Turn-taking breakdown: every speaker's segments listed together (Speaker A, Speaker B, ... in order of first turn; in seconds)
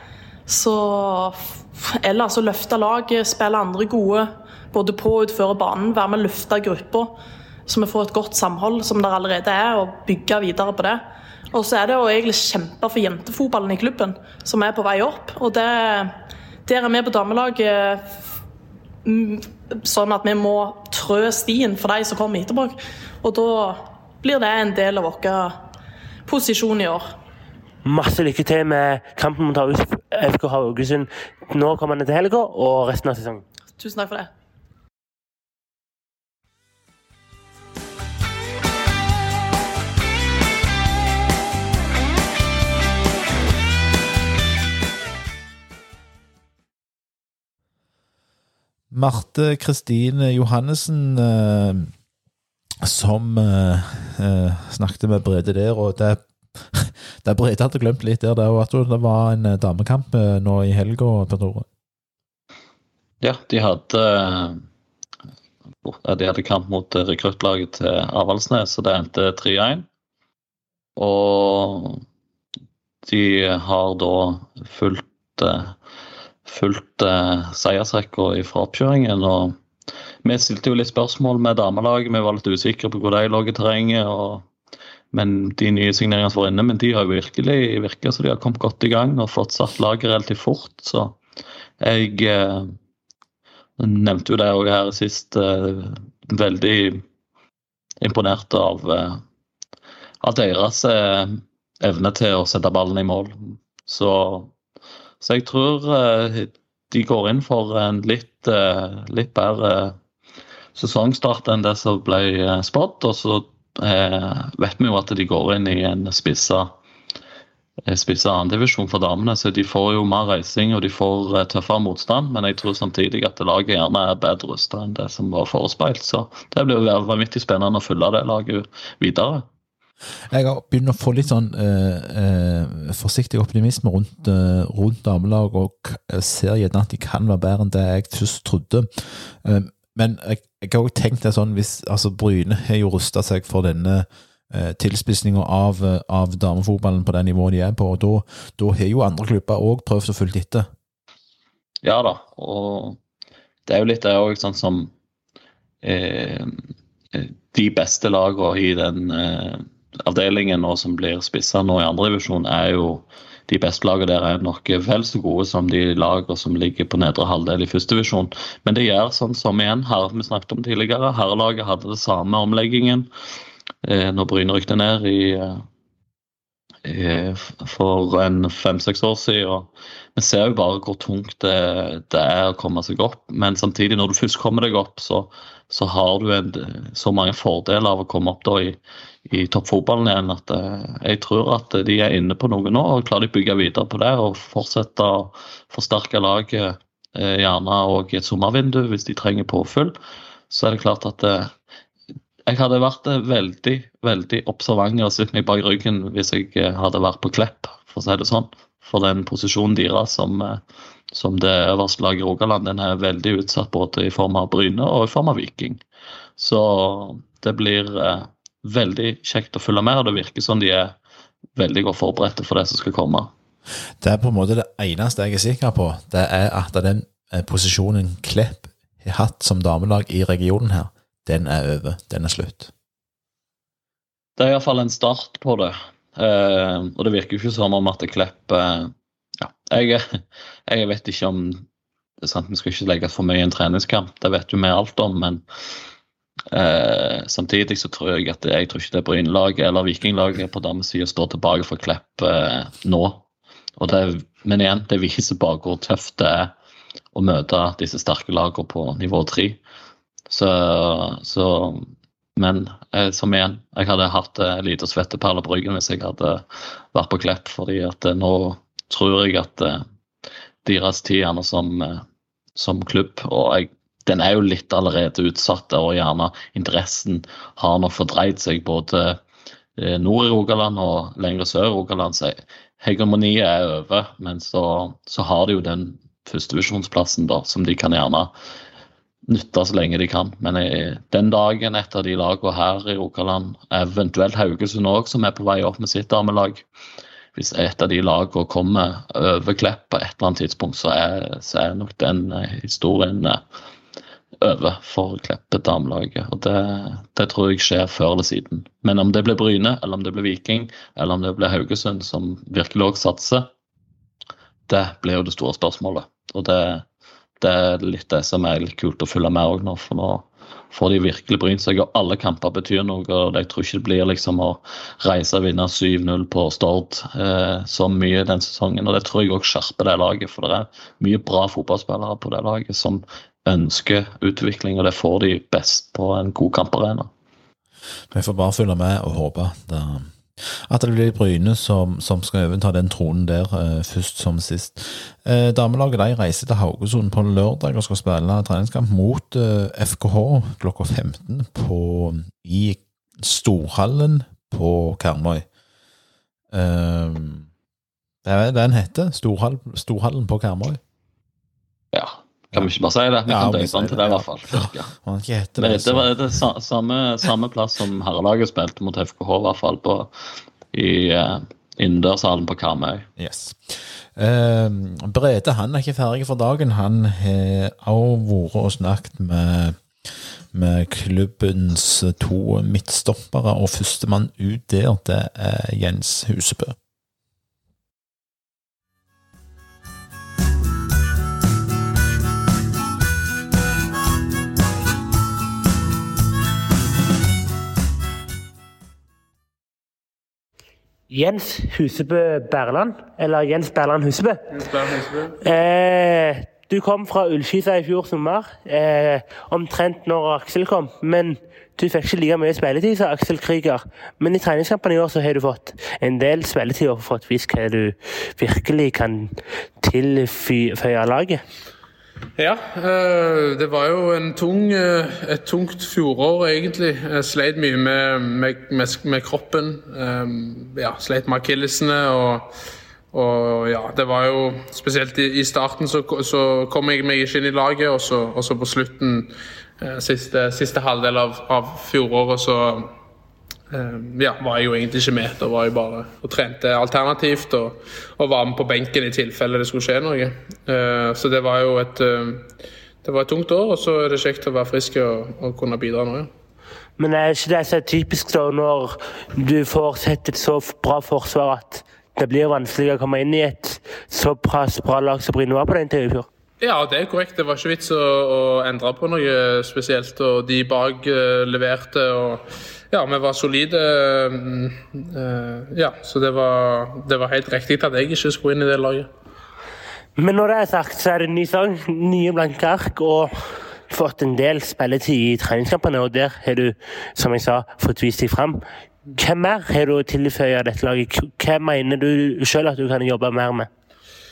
Speaker A: 0.5-16.1, 16.7-18.1, 19.1-25.6, 26.3-27.1, 33.8-34.3
Speaker B: 27.9-33.4, 401.1-404.4, 405.4-421.4, 457.0-466.3, 480.2-483.3, 483.9-488.6, 489.2-493.7
Speaker C: 48.9-51.9, 52.8-61.7, 130.3-150.7, 224.0-232.7, 338.1-355.5, 356.5-357.5, 358.2-360.8, 363.3-366.1, 373.2-386.8
Speaker D: 63.2-64.6, 65.8-69.9, 71.0-72.0, 73.0-75.7, 76.5-79.6, 80.2-84.5, 85.1-91.2, 91.8-92.8, 93.8-97.0, 98.0-99.2, 100.2-104.5, 105.2-110.0, 110.8-116.7, 117.9-129.5, 151.8-153.0, 153.7-154.9, 155.8-156.6, 157.1-173.1, 173.8-175.6, 176.9-200.0, 200.5-201.5, 202.5-210.6, 211.1-215.8, 216.4-220.9, 221.6-223.3, 234.4-241.7, 242.2-245.4, 246.5-253.2, 253.8-256.5, 257.1-259.6, 260.3-269.8, 270.6-272.0, 272.6-279.2, 279.8-288.3, 289.3-296.6, 297.4-303.4, 304.4-313.5, 314.7-316.9, 317.4-337.1, 361.9-364.9, 365.6-370.1, 370.7-373.1
Speaker E: 404.6-405.4, 422.4-432.5, 433.1-442.9, 443.7-452.5, 453.0-456.3, 466.6-479.1